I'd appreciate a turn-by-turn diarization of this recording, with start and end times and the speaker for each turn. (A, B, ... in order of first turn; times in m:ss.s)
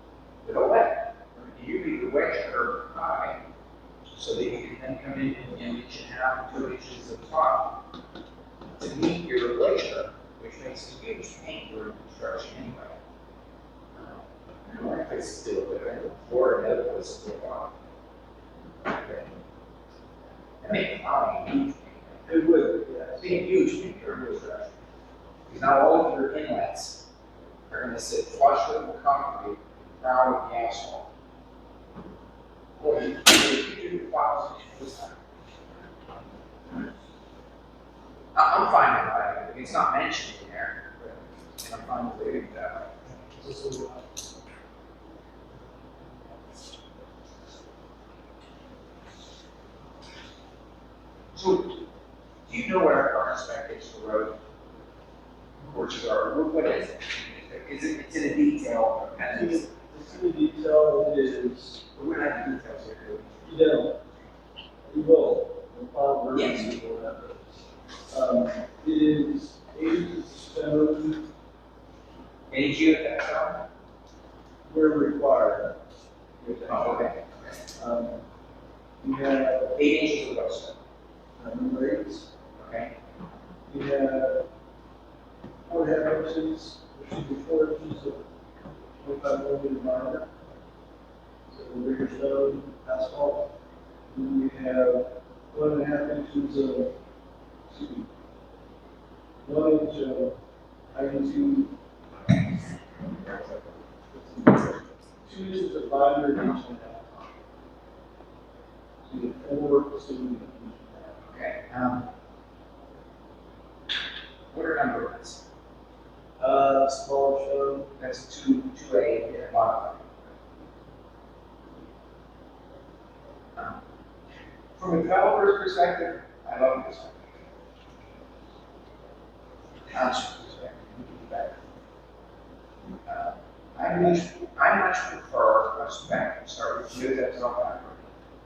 0:00.4-0:03.4 A
0:04.2-0:07.8 A
0:08.8-0:13.0 A
0:14.0-0:17.8 A
0:18.8-0:19.3 A
0:20.6-0:22.4 A
0:22.3-0:24.5 B
0:23.2-0:24.8 A
0:25.5-0:27.0 A
0:27.7-0:31.1 A
0:32.8-0:35.2 A
0:38.4-0:41.0 A
0:41.6-0:42.9 A
0:43.4-0:44.0 B
0:51.3-0:51.8 A
0:52.5-0:54.4 A
0:55.6-0:59.7 A
0:59.3-1:01.9 B
1:02.0-1:03.6 A
1:03.4-1:04.0 B
1:04.9-1:11.3 B
1:06.3-1:06.7 A
1:12.5-1:13.6 A
1:14.7-1:15.8 B
1:16.4-1:17.1 B
1:16.7-1:17.3 A
1:17.7-1:18.2 B
1:19.0-1:19.8 B
1:19.8-1:20.8 A
1:21.4-1:22.3 B
1:22.6-1:22.9 A
1:23.7-1:24.5 B
1:25.6-1:28.2 B
1:29.0-1:30.3 B
1:31.5-1:33.5 B
1:34.1-1:37.0 B
1:37.7-1:38.1 B
1:39.4-1:40.4 B
1:40.9-1:41.8 B
1:43.2-1:47.3 B
1:49.0-1:51.2 B
1:51.2-1:52.1 A
1:54.5-1:55.4 A
1:56.4-1:57.9 B
1:58.0-2:00.2 A
2:03.6-2:03.8 A
2:04.8-2:07.3 A
2:09.9-2:11.6 A
2:13.1-2:18.1 A